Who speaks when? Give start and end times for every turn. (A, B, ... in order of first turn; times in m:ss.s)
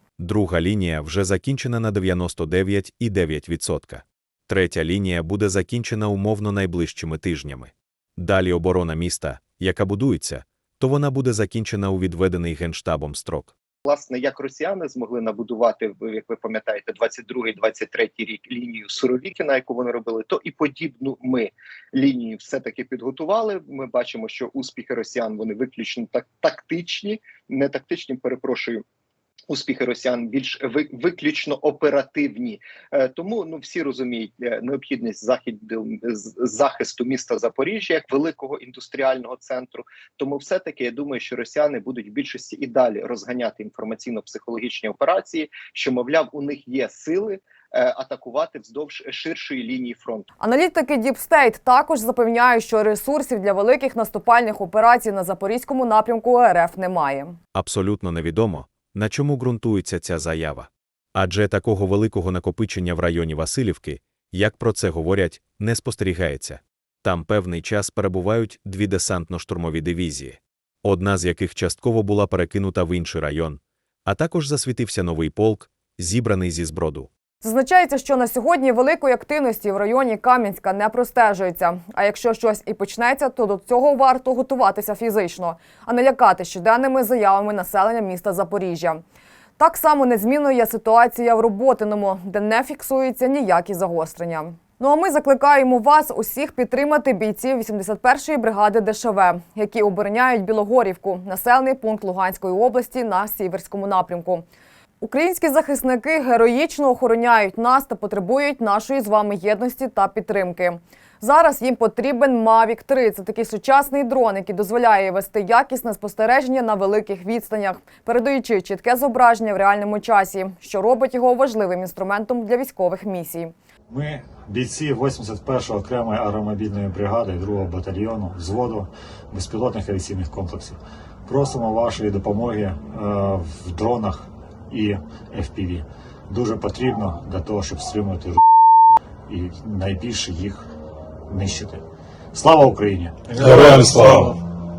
0:00.2-0:13.5 A
0:13.8-0:28.8 B
0:29.5-0:50.3 B
0:50.4-0:57.4 C
0:57.5-1:17.1 A
1:17.4-1:29.0 C
1:29.6-1:44.4 C
1:45.0-2:03.5 C
2:03.9-2:18.4 D
2:19.3-2:20.7 D
2:21.3-2:24.4 D